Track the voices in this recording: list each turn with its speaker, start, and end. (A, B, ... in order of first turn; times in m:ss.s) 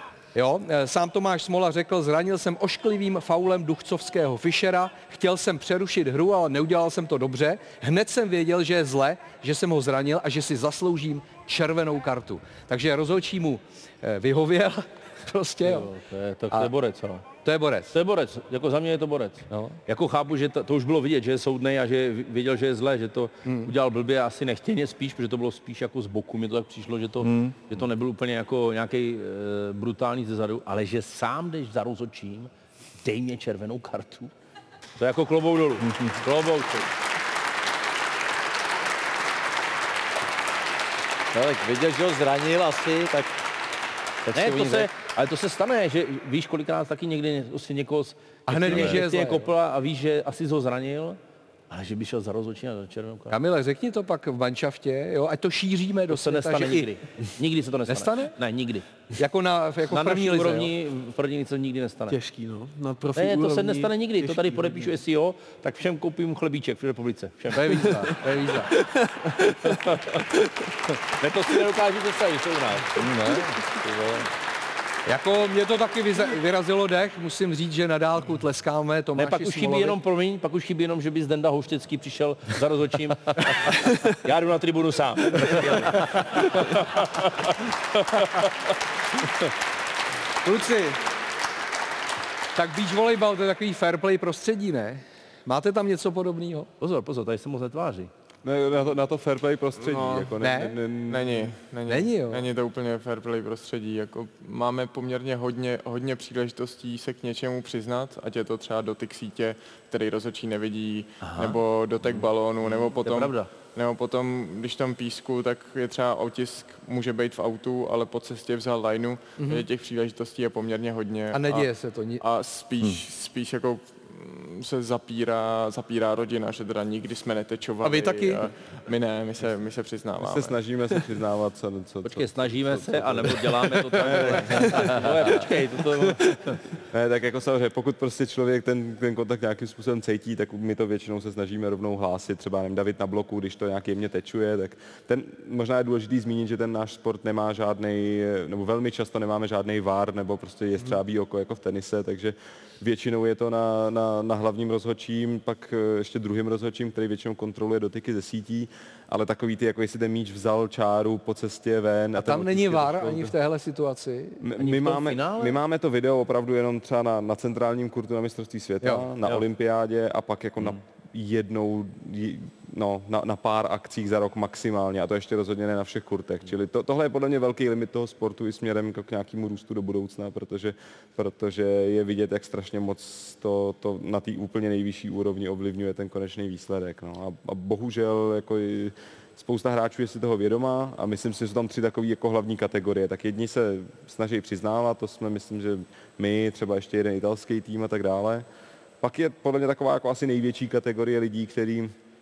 0:00.4-0:15.9 A
0:15.6-0:17.2 B
0:17.4-0:18.0 A
0:17.9-0:32.5 B
0:19.5-0:19.8 A
0:23.4-0:23.7 A
0:27.2-0:27.6 C
0:33.0-0:34.3 B
0:35.0-0:36.9 B
0:35.8-0:36.2 C
0:41.3-0:43.3 C
0:44.3-0:44.9 C
0:44.3-0:51.2 B
0:48.5-0:49.5 A
0:51.7-0:53.4 B
0:53.3-0:56.9 A
0:56.1-0:58.9 B
0:57.9-0:58.4 A
0:59.2-1:00.7 A
0:59.9-1:02.2 B
1:02.1-1:04.9 D
1:03.2-1:08.2 B
1:07.5-1:08.7 A
1:09.7-1:10.3 B
1:10.9-1:14.0 B
1:13.1-1:13.5 A
1:13.7-1:14.2 C
1:15.1-1:20.0 A
1:19.2-1:27.5 B
1:28.1-1:28.5 B
1:30.4-1:31.0 A
1:32.6-1:36.7 A
1:36.8-1:38.1 B
1:38.4-1:41.5 E
1:39.8-1:40.2 F
1:40.4-1:40.8 A
1:41.1-2:10.6 F
1:41.9-1:42.5 A
1:51.2-1:51.6 B
1:52.2-1:53.5 B
1:59.4-1:59.7 A
2:01.3-2:02.2 A
2:07.8-2:08.5 A
2:10.2-2:15.3 E
2:12.0-2:16.6 B
2:16.9-2:43.4 E
2:42.2-2:44.4 A
2:44.4-3:18.4 E
2:44.6-2:45.6 B
2:48.8-2:49.1 A
3:19.0-3:21.9 E